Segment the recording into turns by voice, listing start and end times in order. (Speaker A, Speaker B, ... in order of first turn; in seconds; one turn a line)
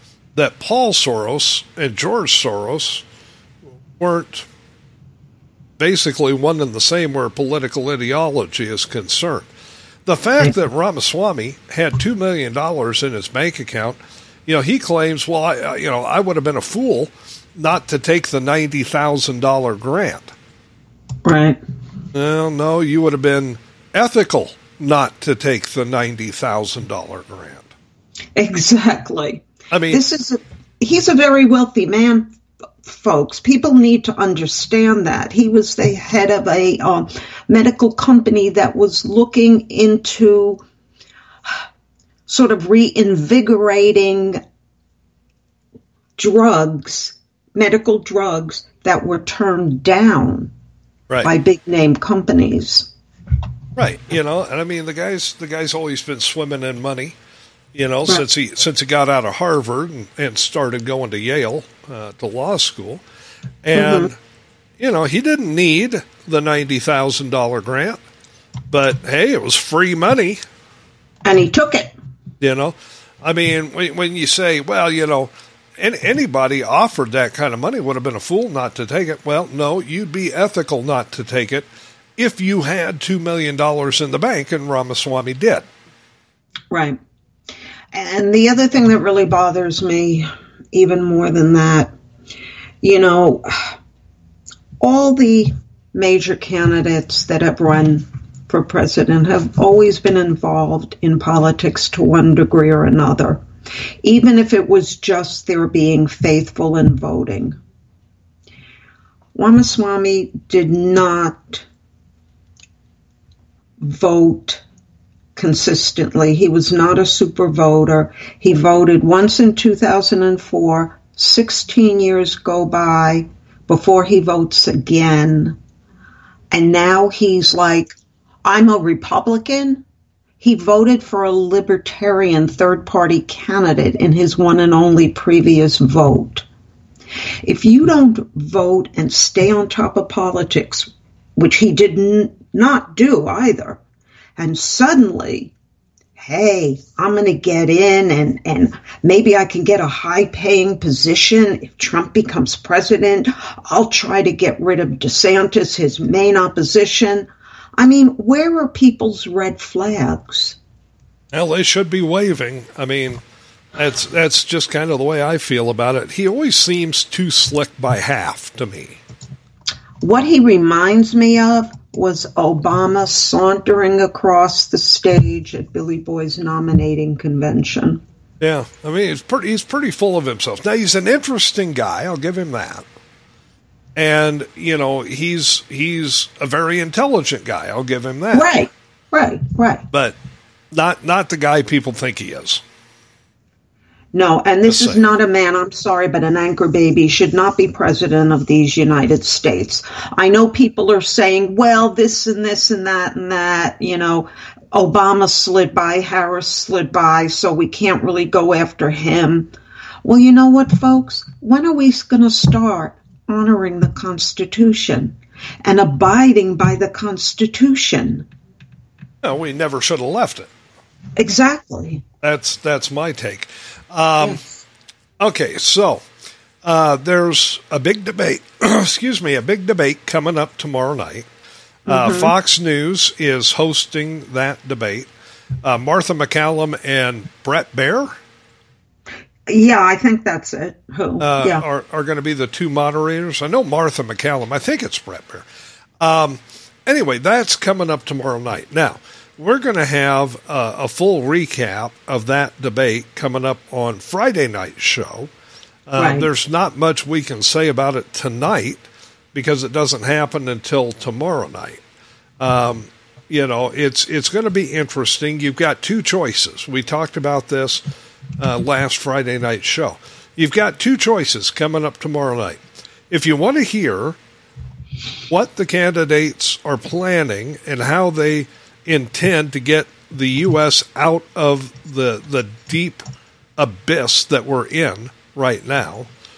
Speaker A: 0.3-3.0
Speaker A: 4.0-4.5
Speaker A: 5.8-9.5
Speaker A: 10.1-20.3
Speaker B: 21.2-21.6
Speaker A: 22.1-27.7
Speaker B: 28.4-32.3
Speaker A: 29.7-30.0
Speaker B: 32.8-40.6
Speaker B: 42.3-44.4
Speaker B: 46.2-50.5
Speaker B: 51.2-52.9
Speaker A: 53.8-57.1
Speaker A: 57.7-63.0
Speaker A: 63.6-64.2
Speaker B: 63.7-64.1
Speaker A: 64.8-68.0
Speaker A: 68.7-70.4
Speaker B: 71.2-71.9
Speaker A: 72.4-85.7
Speaker B: 86.7-87.0
Speaker B: 87.9-91.9
Speaker B: 92.8-93.8
Speaker B: 94.8-103.4
Speaker B: 104.0-107.6
Speaker B: 109.3-111.6
Speaker B: 113.8-114.6
Speaker B: 115.3-125.6
Speaker B: 126.5-129.8
Speaker B: 130.4-136.4
Speaker B: 137.4-143.8
Speaker B: 144.4-145.5
Speaker B: 146.2-157.3
Speaker B: 157.8-160.6
Speaker A: 161.3-163.2
Speaker A: 163.8-169.0
Speaker B: 170.0-178.0
Speaker A: 178.4-182.8
Speaker A: 183.9-188.6
Speaker B: 188.3-189.8
Speaker A: 190.7-192.6
Speaker B: 194.1-209.5
Speaker A: 194.7-195.0
Speaker B: 210.0-218.3
Speaker A: 219.2-220.5
Speaker B: 221.2-222.0
Speaker A: 222.2-224.4
Speaker A: 225.2-226.0
Speaker A: 226.6-231.3
Speaker A: 231.8-235.1
Speaker B: 231.9-232.3
Speaker A: 235.6-238.2
Speaker B: 239.5-241.6
Speaker A: 241.2-245.4
Speaker A: 246.0-255.3
Speaker A: 255.9-261.8
Speaker B: 256.0-256.3
Speaker A: 262.4-267.8
Speaker A: 268.4-274.2
Speaker A: 275.3-283.0
Speaker A: 283.6-286.1